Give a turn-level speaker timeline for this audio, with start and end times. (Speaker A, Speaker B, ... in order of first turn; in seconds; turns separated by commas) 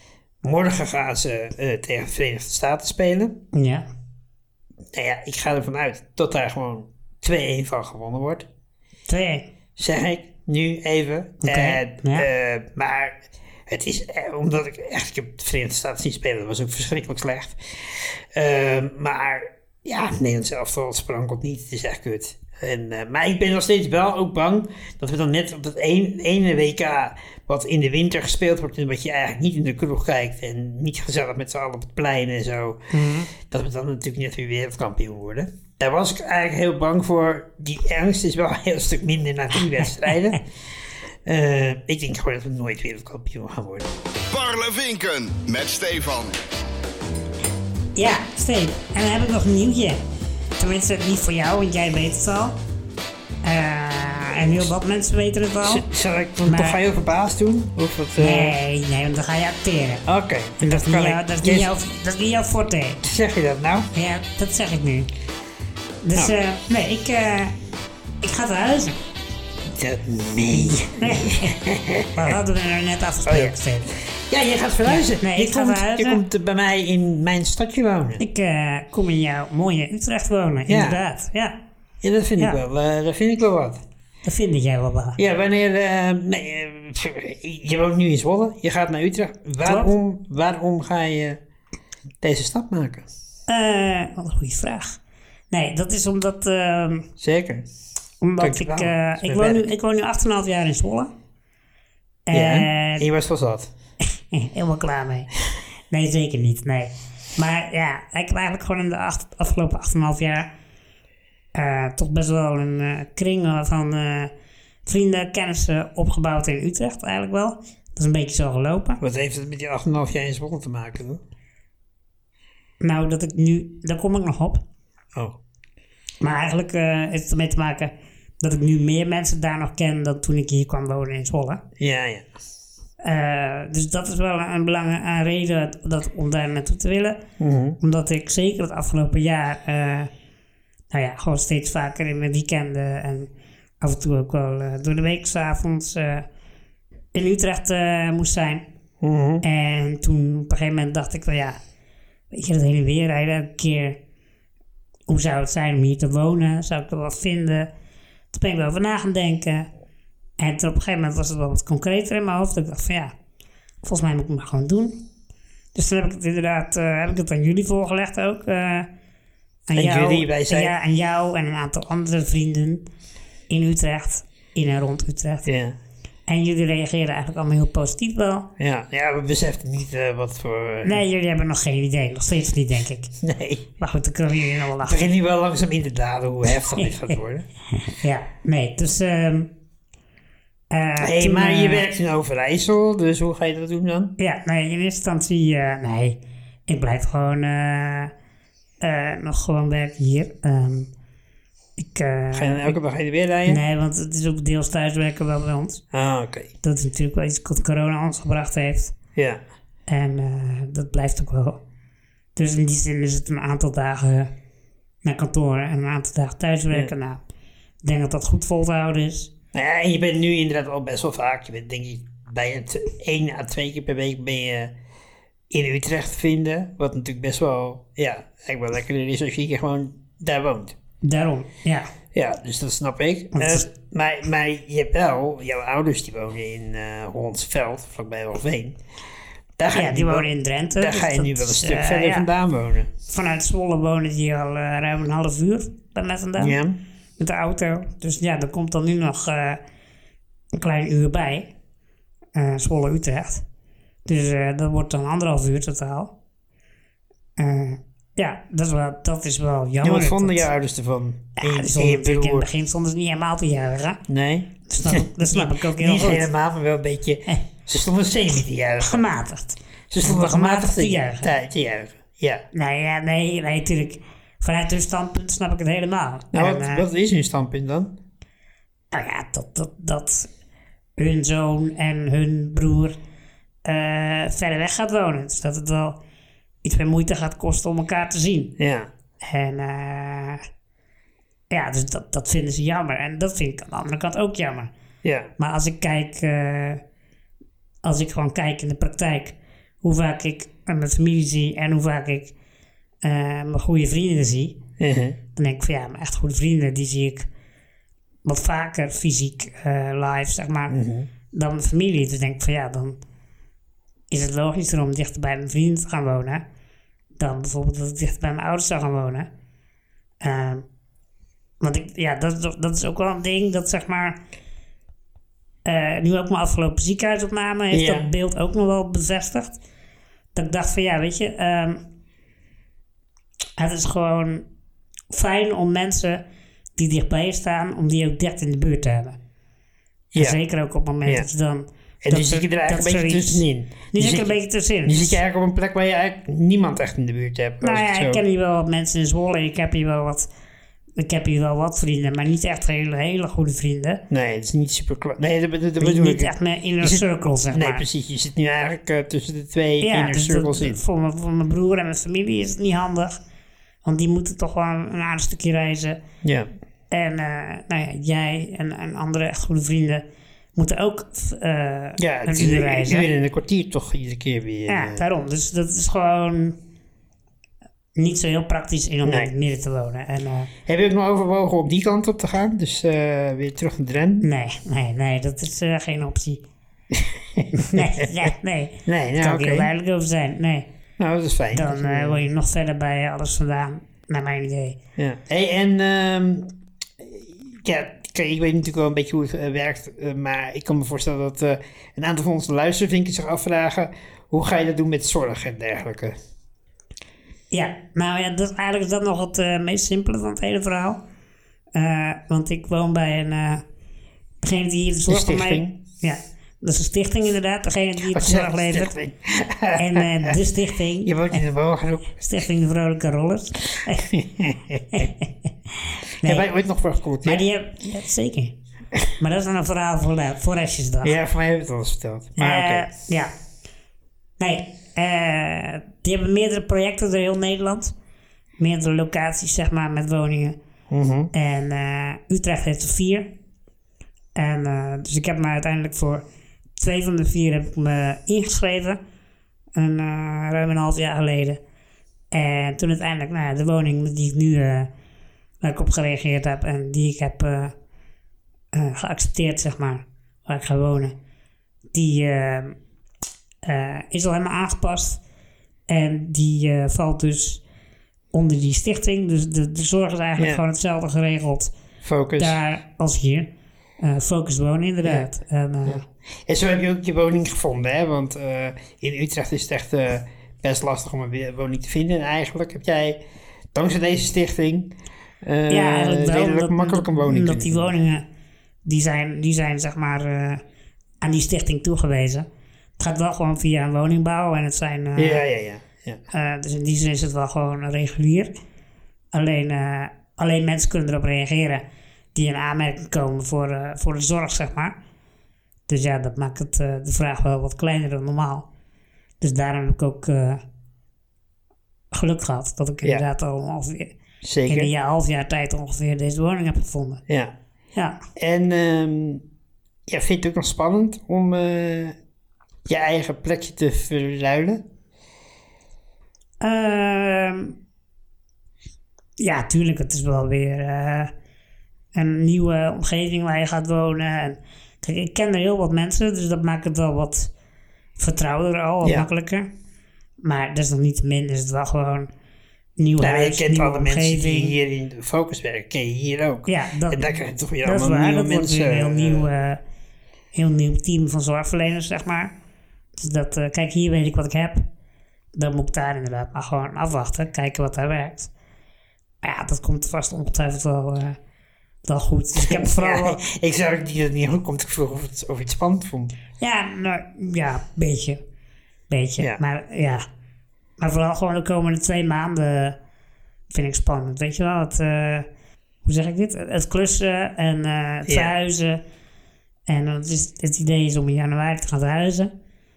Speaker A: 0.4-3.4, Speaker B: 3.5-3.9, Speaker A: 4.9-8.5, Speaker B: 9.1-9.5, Speaker A: 9.8-32.8, Speaker B: 11.4-12.3, Speaker B: 32.9-33.3, Speaker A: 33.4-40.4, Speaker A: 41.2-43.9, Speaker C: 44.3-46.4, Speaker B: 47.9-50.0, Speaker B: 50.6-52.6, Speaker B: 53.4-55.9, Speaker A: 55.6-58.5, Speaker B: 56.4-56.8, Speaker B: 58.2-60.0, Speaker A: 60.0-61.7, Speaker B: 60.6-63.0, Speaker A: 63.0-63.9, Speaker B: 63.9-65.1, Speaker B: 66.0-67.5, Speaker B: 68.2-69.0, Speaker A: 69.7-72.3, Speaker B: 70.5-71.5, Speaker B: 72.1-73.9, Speaker A: 73.2-78.2, Speaker B: 74.8-76.2, Speaker B: 78.2-81.5, Speaker A: 80.7-81.0, Speaker A: 82.0-83.8, Speaker B: 84.2-85.2, Speaker A: 85.2-91.4, Speaker B: 89.6-89.9, Speaker A: 92.2-93.1, Speaker B: 93.5-95.0, Speaker B: 95.5-97.1, Speaker A: 97.2-97.7, Speaker B: 98.2-101.1, Speaker A: 98.4-99.7, Speaker B: 102.3-103.1, Speaker A: 102.3-103.7, Speaker B: 104.3-105.3, Speaker B: 105.9-110.5, Speaker B: 111.5-114.3, Speaker B: 114.8-119.0, Speaker A: 119.0-121.2, Speaker B: 122.8-124.6, Speaker B: 126.2-131.6, Speaker A: 131.8-132.3, Speaker B: 133.0-137.2, Speaker A: 137.4-137.8, Speaker B: 137.8-140.1, Speaker B: 140.9-146.3, Speaker B: 147.1-148.6, Speaker A: 149.0-149.4, Speaker B: 149.4-151.6, Speaker B: 152.3-154.0, Speaker B: 155.1-157.7, Speaker B: 158.3-159.7, Speaker B: 160.4-163.1, Speaker B: 163.8-165.0, Speaker B: 165.7-168.9, Speaker B: 169.7-172.8, Speaker A: 169.7-170.7, Speaker B: 173.5-175.5, Speaker A: 175.4-175.8, Speaker B: 176.3-178.5, Speaker A: 178.6-181.0, Speaker B: 180.8-183.1, Speaker A: 183.2-183.7, Speaker B: 183.8-185.1, Speaker A: 184.8-187.4, Speaker B: 187.8-189.5, Speaker B: 190.7-191.8, Speaker A: 191.0-194.1, Speaker B: 194.2-198.1, Speaker B: 198.8-200.9, Speaker B: 201.8-202.8, Speaker A: 202.3-203.6, Speaker B: 203.4-205.8, Speaker A: 205.9-206.5, Speaker B: 206.6-208.9, Speaker A: 209.2-209.4, Speaker B: 209.9-211.6, Speaker B: 212.3-214.3, Speaker B: 215.0-217.2, Speaker B: 217.8-219.3, Speaker A: 219.5-224.7, Speaker A: 225.5-230.8, Speaker B: 231.0-231.9, Speaker A: 232.1-238.8, Speaker B: 233.3-233.7, Speaker A: 239.6-242.9, Speaker B: 239.7-242.2, Speaker B: 243.1-246.6, Speaker A: 246.4-246.8, Speaker B: 247.2-249.6, Speaker B: 250.5-251.5, Speaker B: 252.3-253.4, Speaker B: 254.1-256.1, Speaker B: 257.4-260.5, Speaker A: 259.8-262.5, Speaker B: 261.4-264.0, Speaker A: 264.1-269.0, Speaker B: 264.7-266.3, Speaker B: 268.8-271.3, Speaker A: 269.9-272.4, Speaker B: 272.5-276.9, Speaker A: 276.3-277.9, Speaker B: 278.9-280.3, Speaker B: 281.0-283.0, Speaker B: 283.6-286.0, Speaker B: 286.6-288.5, Speaker A: 288.6-288.9, Speaker B: 289.2-290.4, Speaker B: 291.5-294.7, Speaker A: 295.0-295.3, Speaker B: 295.4-296.8, Speaker B: 297.8-302.3, Speaker B: 303.0-304.6, Speaker A: 304.8-305.2, Speaker B: 305.3-307.3, Speaker B: 308.2-310.8, Speaker A: 310.7-311.1, Speaker B: 311.3-313.0, Speaker B: 314.1-316.4, Speaker B: 317.2-319.3, Speaker B: 320.2-320.6, Speaker B: 321.6-324.2, Speaker B: 325.6-329.6, Speaker A: 327.7-328.1, Speaker B: 330.3-331.8, Speaker B: 333.6-334.4, Speaker B: 335.1-336.2, Speaker B: 336.8-339.2, Speaker A: 340.1-340.4, Speaker B: 340.1-345.2, Speaker A: 342.0-348.2, Speaker B: 347.6-350.3, Speaker B: 351.0-354.0, Speaker A: 354.1-360.8, Speaker B: 355.8-357.8, Speaker B: 359.8-363.1, Speaker B: 363.8-366.0, Speaker A: 366.2-366.5, Speaker B: 366.9-370.0, Speaker B: 370.5-373.1, Speaker A: 372.0-375.0, Speaker B: 374.7-376.6, Speaker B: 377.9-380.5, Speaker A: 379.1-379.3, Speaker A: 380.7-384.3, Speaker B: 384.2-386.4, Speaker A: 386.9-388.3, Speaker B: 387.6-390.7, Speaker A: 388.9-389.7, Speaker A: 391.0-392.2, Speaker B: 391.5-394.8, Speaker A: 395.0-406.1, Speaker B: 407.5-411.0, Speaker B: 411.7-413.6, Speaker B: 414.4-418.9, Speaker A: 415.1-415.8, Speaker A: 418.1-420.4, Speaker B: 419.8-421.4, Speaker A: 421.0-422.2, Speaker B: 422.1-424.1, Speaker A: 424.0-425.0, Speaker B: 424.9-426.4, Speaker A: 426.2-427.4, Speaker B: 427.2-428.6, Speaker B: 429.2-431.2, Speaker A: 431.0-432.9, Speaker B: 432.4-433.3, Speaker B: 434.4-437.9, Speaker B: 438.6-440.6, Speaker A: 440.9-441.3, Speaker B: 441.3-443.3, Speaker B: 444.4-446.2, Speaker B: 446.8-449.0, Speaker B: 449.7-451.6, Speaker B: 452.3-454.9, Speaker B: 455.6-457.7, Speaker B: 458.7-461.1, Speaker B: 461.9-462.8, Speaker B: 463.6-465.2, Speaker B: 465.9-467.6, Speaker B: 468.3-471.7, Speaker A: 472.0-472.6, Speaker B: 472.4-476.0, Speaker A: 475.9-483.2, Speaker A: 483.7-487.9, Speaker B: 485.7-488.2, Speaker B: 488.8-490.6, Speaker B: 491.2-492.5, Speaker B: 493.0-495.4, Speaker A: 495.1-496.2, Speaker B: 496.3-498.5, Speaker B: 499.3-501.8, Speaker B: 502.3-504.9, Speaker B: 505.9-508.7, Speaker B: 509.4-510.6, Speaker B: 512.1-514.1, Speaker A: 514.4-514.9, Speaker B: 514.7-517.2, Speaker A: 517.3-517.5, Speaker A: 518.4-519.4, Speaker A: 520.1-522.2, Speaker A: 522.9-524.8, Speaker B: 526.6-527.7, Speaker B: 529.4-531.3, Speaker B: 532.1-537.5, Speaker B: 538.2-539.7, Speaker B: 540.4-542.3, Speaker B: 543.0-544.7, Speaker A: 543.2-549.5, Speaker B: 546.6-549.8, Speaker B: 550.5-552.5, Speaker B: 553.1-554.9, Speaker B: 555.5-558.5, Speaker B: 559.4-561.4, Speaker B: 562.0-563.4, Speaker A: 562.6-566.4, Speaker B: 566.6-568.4, Speaker B: 569.1-570.2, Speaker B: 571.0-573.0, Speaker B: 573.7-575.5, Speaker B: 576.0-579.0, Speaker A: 578.2-578.5, Speaker B: 579.9-582.5